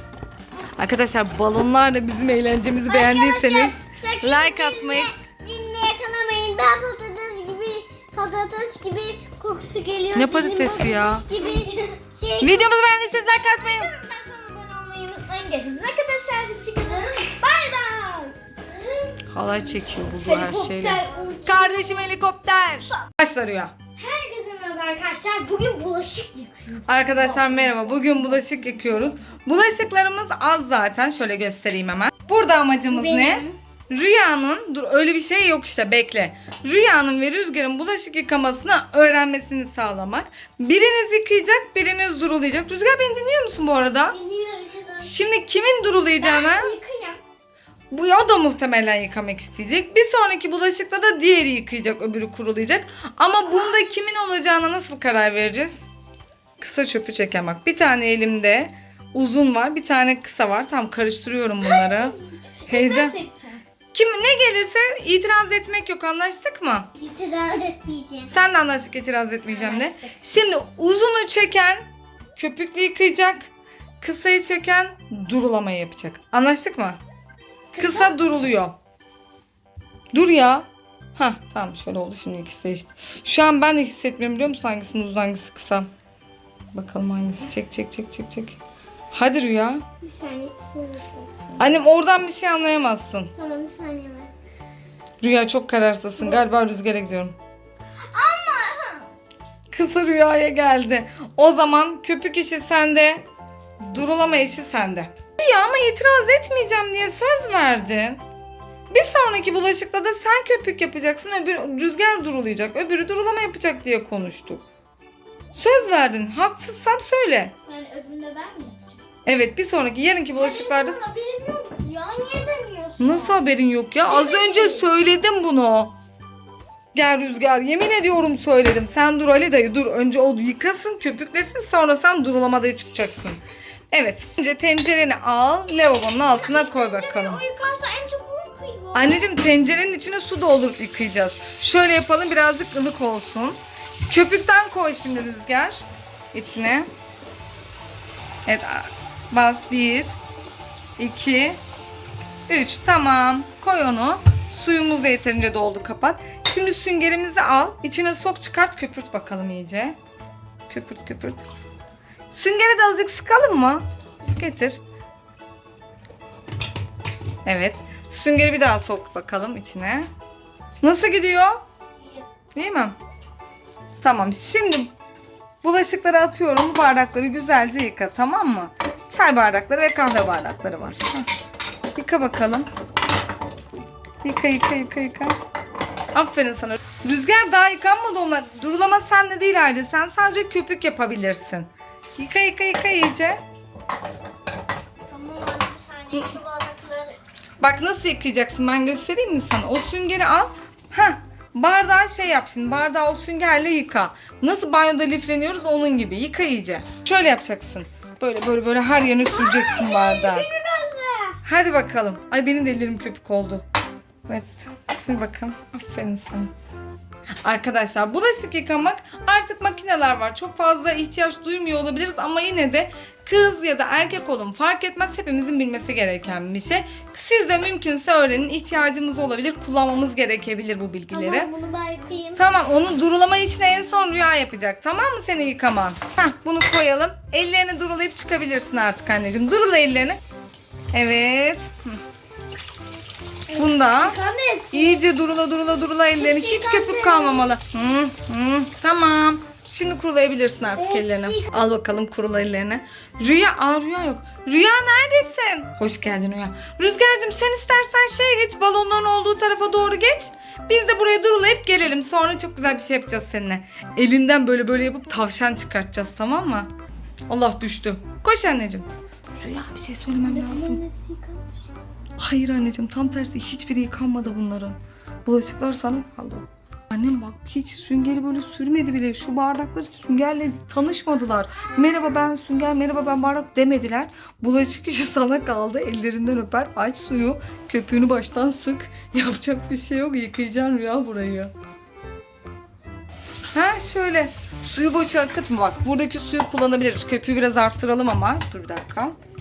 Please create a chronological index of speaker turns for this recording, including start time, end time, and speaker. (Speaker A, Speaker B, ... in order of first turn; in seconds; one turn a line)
Speaker A: 0.8-5.1
Speaker B: 2.9-19.2
Speaker A: 10.1-11.2
Speaker A: 12.4-13.9
Speaker A: 19.3-23.7
Speaker B: 20.0-21.9
Speaker B: 24.0-28.2
Speaker A: 26.9-44.2
Speaker B: 32.9-33.5
Speaker B: 44.1-45.1
Speaker A: 45.0-46.8
Speaker B: 46.2-47.2
Speaker A: 47.9-55.9
Speaker A: 56.6-62.2
Speaker B: 61.6-63.6
Speaker A: 62.7-63.1
Speaker A: 63.9-66.9
Speaker B: 67.0-68.3
Speaker A: 68.3-71.8
Speaker B: 69.5-70.2
Speaker A: 72.3-73.5
Speaker A: 74.0-77.0
Speaker B: 77.7-78.2
Speaker A: 77.8-78.8
Speaker A: 80.1-85.9
Speaker A: 86.7-88.6
Speaker A: 89.1-89.8
Speaker B: 90.0-91.7
Speaker A: 91.6-93.3
Speaker B: 93.4-94.3
Speaker A: 95.2-97.3
Speaker B: 98.1-99.1
Speaker A: 99.7-103.2
Speaker A: 103.8-108.2
Speaker A: 108.9-114.6
Speaker A: 115.5-117.5
Speaker B: 117.7-119.0
Speaker A: 119.2-121.0
Speaker B: 120.3-123.4
Speaker A: 123.0-125.9
Speaker B: 124.0-124.9
Speaker A: 126.9-133.4
Speaker A: 133.9-137.4
Speaker B: 136.3-139.2
Speaker A: 138.9-146.9
Speaker A: 148.4-150.2
Speaker A: 151.0-151.6
Speaker A: 152.5-160.0
Speaker A: 160.7-161.5
Speaker A: 162.3-164.8
Speaker A: 167.4-170.1
Speaker A: 170.8-171.6
Speaker A: 172.5-173.0
Speaker A: 174.0-174.9
Speaker A: 175.6-181.3
Speaker A: 181.9-182.7
Speaker A: 184.2-185.4
Speaker A: 186.1-193.4
Speaker B: 195.1-197.2
Speaker A: 197.6-210.5
Speaker B: 209.2-211.4
Speaker A: 211.4-213.6
Speaker A: 214.2-216.5
Speaker A: 217.4-231.5
Speaker B: 231.1-232.4
Speaker A: 232.3-240.2
Speaker A: 240.9-242.0
Speaker A: 243.5-244.2
Speaker B: 243.5-245.0
Speaker A: 244.7-266.7
Speaker B: 246.2-247.5
Speaker B: 250.8-251.5
Speaker A: 267.3-270.8
Speaker B: 270.2-271.7
Speaker A: 272.2-291.5
Speaker A: 293.5-299.1